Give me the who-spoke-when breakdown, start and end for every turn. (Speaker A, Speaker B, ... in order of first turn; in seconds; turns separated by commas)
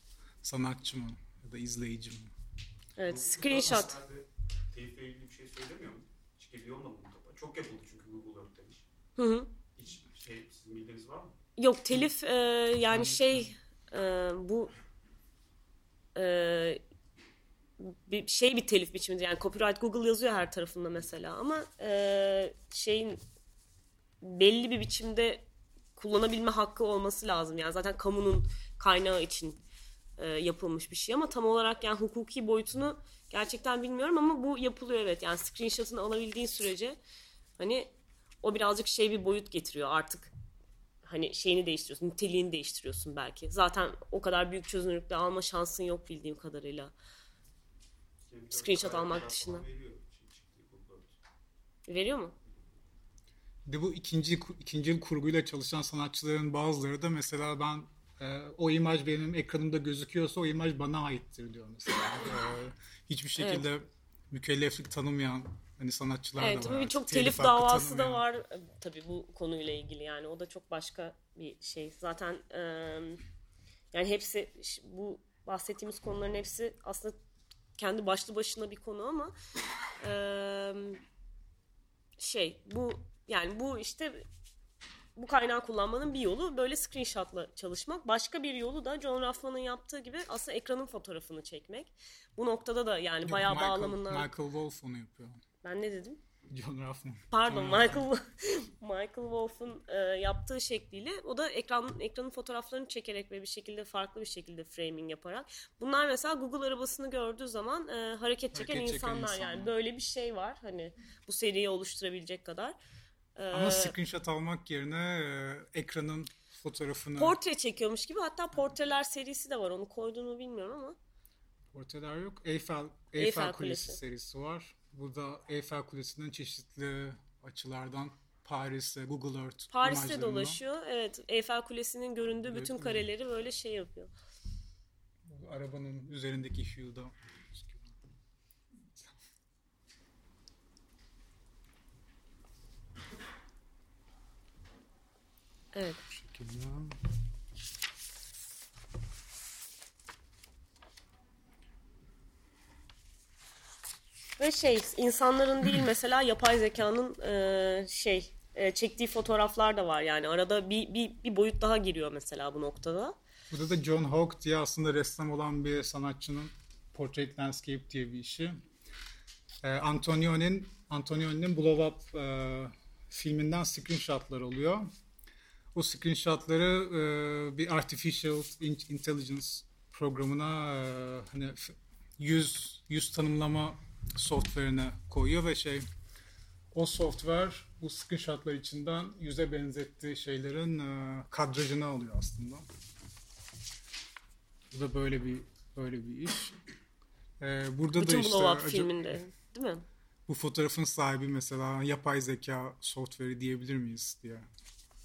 Speaker A: 0.4-2.3, Speaker B: 3.0-4.0, Speaker C: 3.1-8.8, Speaker B: 9.2-9.5, Speaker C: 9.8-11.3, Speaker B: 11.6-14.7, Speaker A: 12.9-13.5, Speaker B: 16.1-16.8, Speaker B: 17.8-23.2, Speaker B: 24.2-25.4, Speaker B: 26.0-29.6, Speaker B: 30.2-37.0, Speaker B: 37.6-40.3, Speaker B: 41.0-46.9, Speaker C: 48.3-51.2, Speaker B: 48.5-49.6, Speaker B: 51.9-52.4, Speaker A: 53.7-68.2, Speaker B: 63.4-63.6, Speaker B: 66.4-73.2, Speaker B: 73.9-77.2, Speaker B: 77.8-79.3, Speaker B: 80.0-81.0, Speaker B: 82.2-84.2, Speaker B: 85.2-94.3, Speaker A: 93.2-95.4, Speaker B: 95.6-96.2, Speaker A: 96.5-98.1, Speaker B: 97.3-112.8, Speaker A: 108.5-109.7, Speaker B: 113.4-114.0, Speaker A: 113.5-117.4, Speaker B: 117.2-121.0, Speaker A: 121.7-130.6, Speaker B: 123.2-124.0, Speaker B: 129.7-134.1, Speaker A: 132.5-133.1, Speaker A: 135.3-137.9, Speaker B: 145.7-146.0, Speaker A: 146.2-147.0, Speaker B: 154.4-163.2, Speaker A: 163.5-168.6, Speaker A: 169.6-174.9, Speaker A: 175.7-185.9, Speaker A: 186.7-192.7, Speaker A: 194.7-196.6, Speaker A: 197.4-198.9, Speaker B: 198.0-199.8, Speaker A: 200.3-204.5